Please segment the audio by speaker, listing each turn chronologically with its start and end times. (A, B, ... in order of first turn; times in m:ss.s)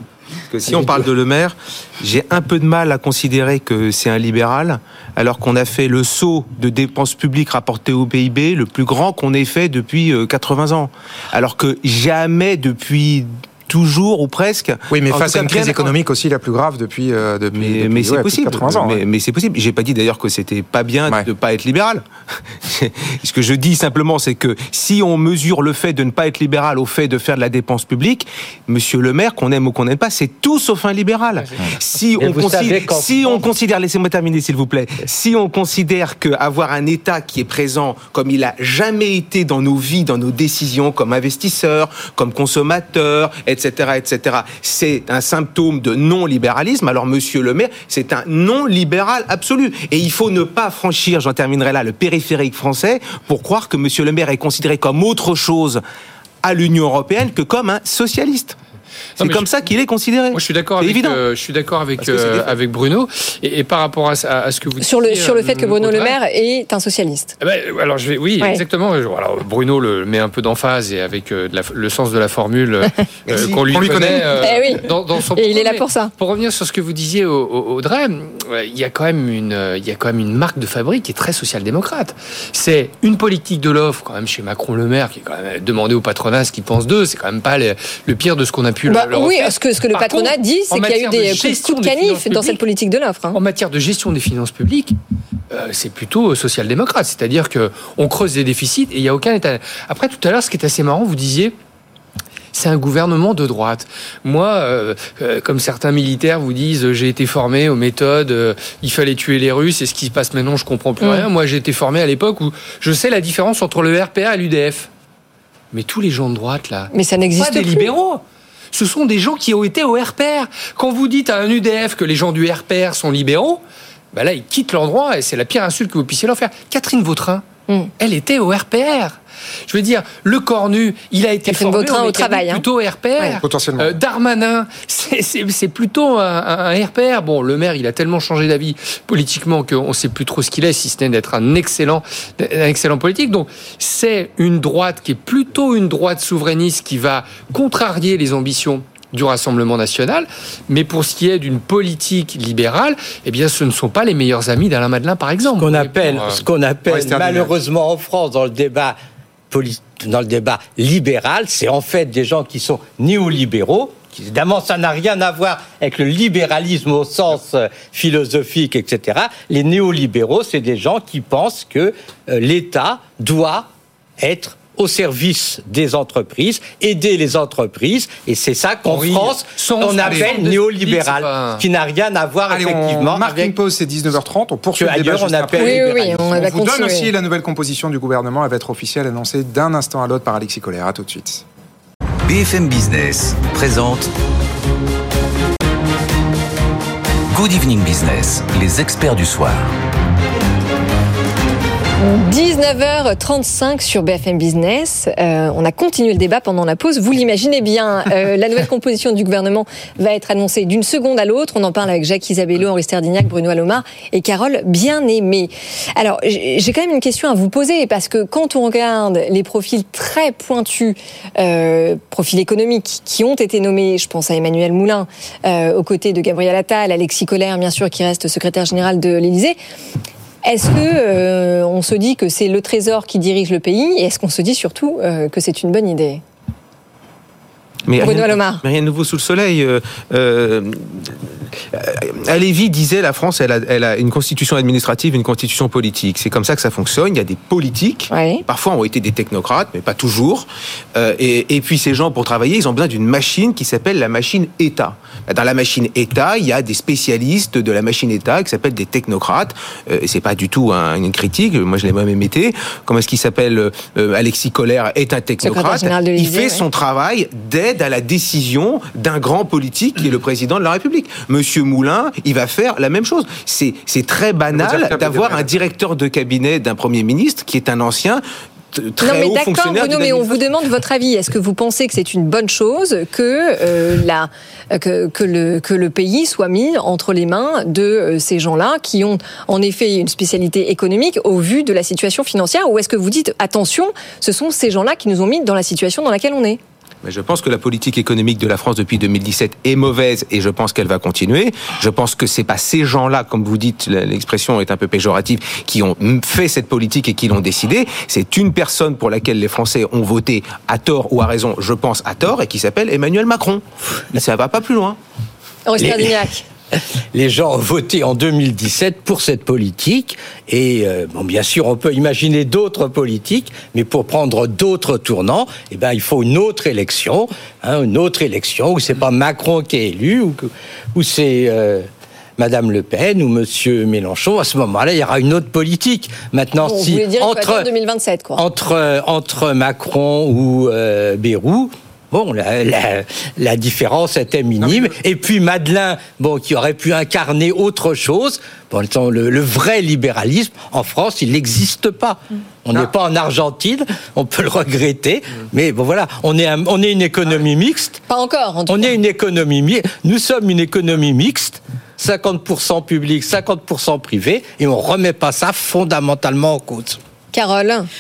0:00.5-0:15.9 A
0:14.9-0:19.0 B
0:17.5-0:55.8 A
0:31.4-0:31.6 C
0:32.2-0:33.4 D
0:56.4-0:58.6 A
0:59.2-0:59.5 C
0:59.2-1:01.2 A
1:00.3-1:06.2 C
1:02.0-1:02.5 A
1:04.8-1:07.3 E
1:07.4-1:32.6 C
1:13.3-1:14.4 B
1:13.3-1:14.1 A
1:14.4-1:16.1 E
1:28.9-1:33.4 E
1:33.3-1:35.0 C
1:35.5-1:41.6 C
1:42.5-1:54.9 C
1:51.0-1:51.3 E
1:55.7-2:03.6 C
1:56.9-1:57.9 E
2:04.1-2:07.4 C
2:08.0-2:36.4 C
2:11.4-2:12.6 E
2:13.4-2:13.9 B
2:35.6-2:39.0 D
2:36.9-2:37.5 B
2:39.5-3:03.5 D
2:58.9-3:01.6 C
3:02.5-3:11.4 B
3:04.8-3:06.4 D
3:05.6-3:07.1 E
3:12.3-3:14.1 F
3:17.3-3:19.7 F
3:22.0-3:49.6 E
3:50.4-3:56.2 E
3:57.9-4:40.5 A
3:58.0-3:58.6 E
4:08.1-4:08.4 E
4:25.4-4:26.6 E
4:34.5-4:35.6 B
4:39.0-4:56.6 E
4:57.0-5:15.0 A
5:15.7-5:16.4 E
5:17.1-5:31.9 D
5:32.4-5:37.7 D
5:36.6-5:38.4 E
5:38.4-5:58.0 D
5:44.6-5:45.0 B
5:58.1-5:59.0 E
5:58.7-6:07.0 D
6:07.3-6:07.9 E